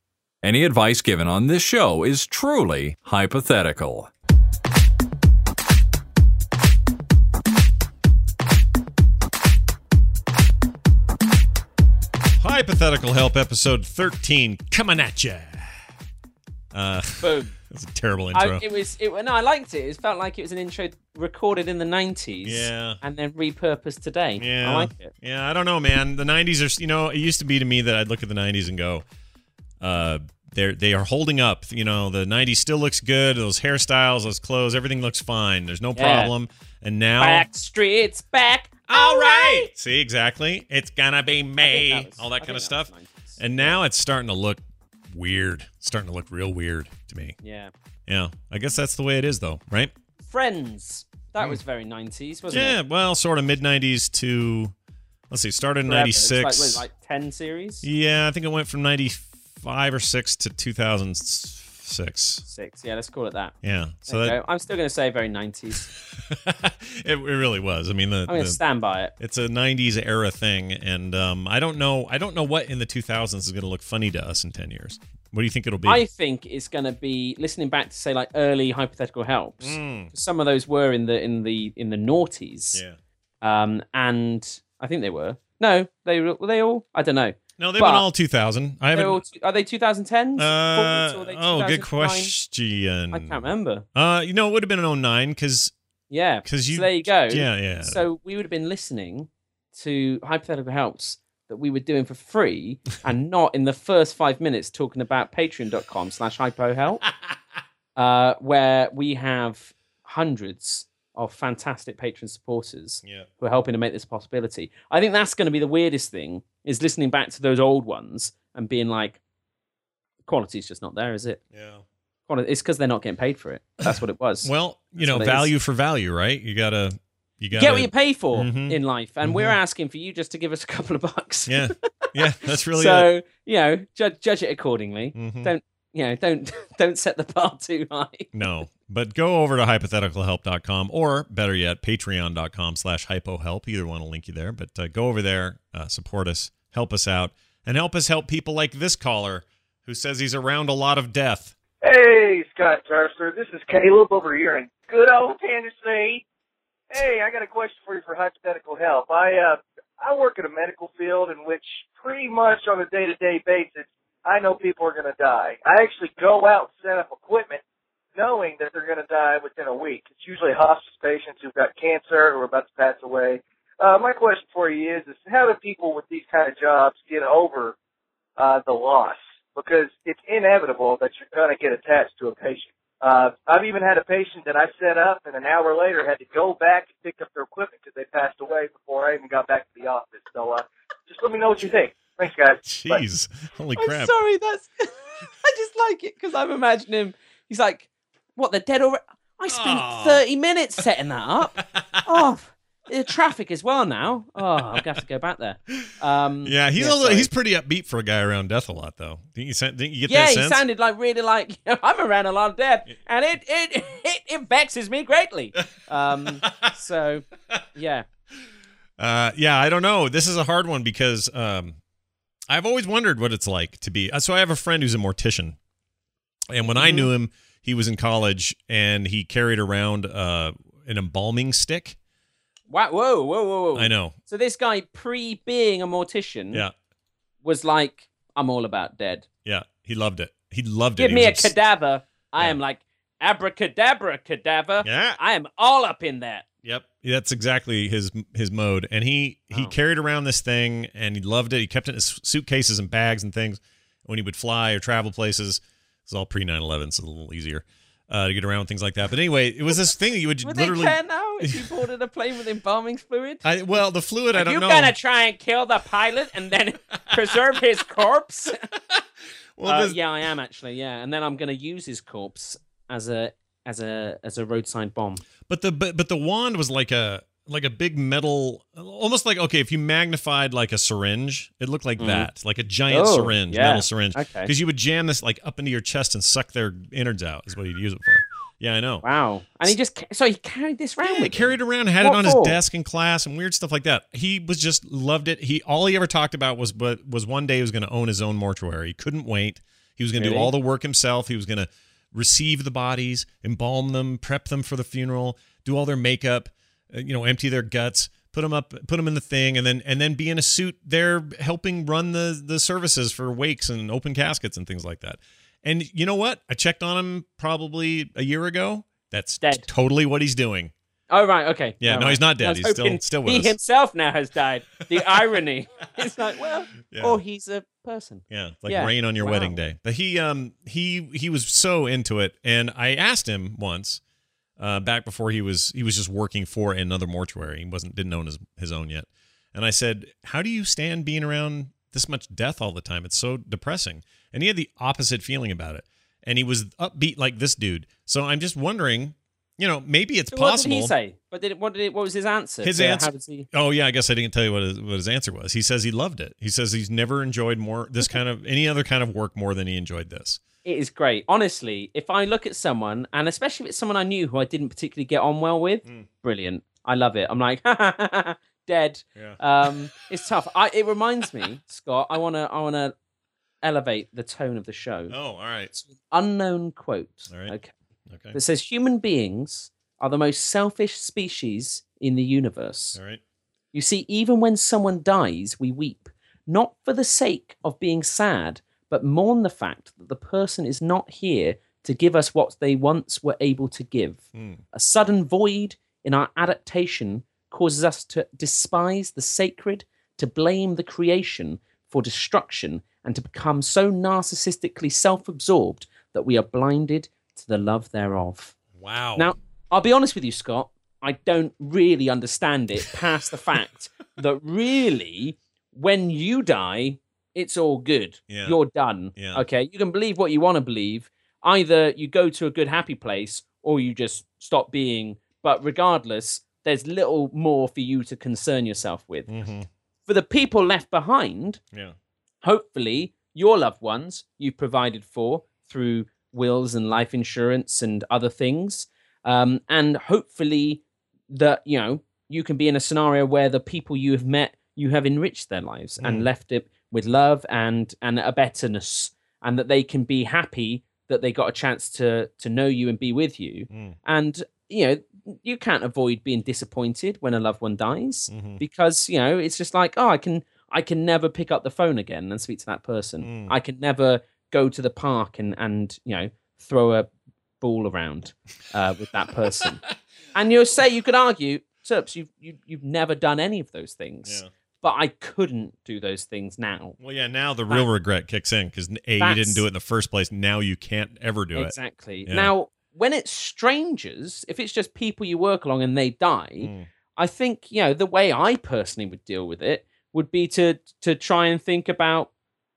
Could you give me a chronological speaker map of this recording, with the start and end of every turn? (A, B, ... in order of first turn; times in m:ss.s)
0:00.4-0:04.1 A
0:12.4-0:15.9 B
0:16.7-0:18.6 B
0:17.2-0:17.5 C
0:18.3-0:25.1 C
0:22.4-0:23.0 B
0:24.4-0:29.0 B
0:29.8-0:37.5 B
0:36.0-0:36.3 C
0:37.2-0:39.7 C
0:38.9-0:47.4 B
0:41.6-0:43.8 C
0:47.4-0:47.7 C
0:48.1-0:49.9 B
0:50.2-0:52.8 C
0:52.5-0:54.8 B
0:55.3-0:56.8 B
0:55.9-0:57.9 C
0:57.8-1:02.4 B
1:02.5-1:03.5 C
1:03.6-1:04.4 B
1:04.1-1:05.9 C
1:06.0-1:08.6 B
1:08.3-1:09.1 C
1:09.2-1:16.0 B
1:15.8-1:22.8 C
1:19.6-1:20.1 B
1:23.4-1:28.1 C
1:27.6-1:29.2 B
1:28.9-1:32.3 C
1:30.4-1:33.4 B
1:33.1-1:33.8 C
1:34.0-1:35.7 B
1:36.1-1:47.0 C
1:36.5-1:38.0 B
1:48.0-1:59.2 C
1:53.0-1:53.3 B
2:00.2-2:01.4 C
2:01.5-2:01.8 B
2:02.3-2:05.5 C
2:03.8-2:09.6 B
2:07.5-2:12.2 C
2:11.5-2:13.1 B
2:12.7-2:18.3 C
2:15.2-2:15.5 B
2:18.3-2:31.6 B
2:31.8-2:36.2 D
2:36.9-2:47.6 D
2:48.2-2:57.8 D
2:58.4-3:13.0 D
3:12.7-3:14.1 B
3:13.8-3:27.3 C
3:19.5-3:20.2 B
3:21.6-3:22.0 B
3:26.4-3:30.6 B
3:30.1-3:38.1 C
3:36.4-3:36.7 B
3:39.0-3:41.8 B
3:42.5-3:45.6 B
3:46.5-3:52.0 B
3:46.7-3:47.1 C
3:52.7-3:56.6 C
3:53.8-3:54.2 B
3:57.4-3:59.3 C
3:59.4-4:01.5 B
4:01.0-4:06.5 C
4:04.8-4:05.2 B
4:06.6-4:21.8 B
4:20.4-4:23.4 C
4:23.4-4:25.0 B
4:24.3-4:28.7 C
4:29.6-4:30.0 B
4:29.6-4:35.2 C
4:35.5-4:49.0 B
4:42.0-4:42.3 C
4:42.9-4:44.5 C
4:49.0-4:52.6 C
4:51.0-5:20.7 B
5:00.2-5:00.5 C
5:19.4-5:19.7 C
5:21.1-5:29.6 C
5:21.8-5:23.6 B
5:24.9-5:25.3 B
5:26.8-5:27.2 B
5:28.3-5:34.0 B
5:34.6-5:50.9 B
5:50.3-5:53.5 C
5:52.6-6:00.4 B
6:00.6-6:12.9 C
6:09.2-6:09.7 B
6:13.6-6:15.2 C
6:15.1-6:15.7 B
6:15.8-6:17.7 C
6:18.1-6:18.4 B
6:18.3-6:23.0 C
6:23.0-6:23.2 B
6:23.7-6:48.6 C
6:48.8-6:49.3 B
6:49.2-7:09.3 C
6:58.3-6:58.6 B
6:59.2-6:59.4 B
7:09.3-7:09.7 B
7:10.1-7:11.6 C
7:12.4-7:47.1 C
7:26.0-7:26.3 B
7:33.7-7:34.0 B
7:38.3-7:38.6 B
7:43.2-7:43.5 B
7:47.6-7:49.8 C
7:50.3-7:57.0 C
7:57.0-8:02.5 B
7:59.2-7:59.6 C
8:01.5-8:12.3 C
8:06.6-8:06.9 B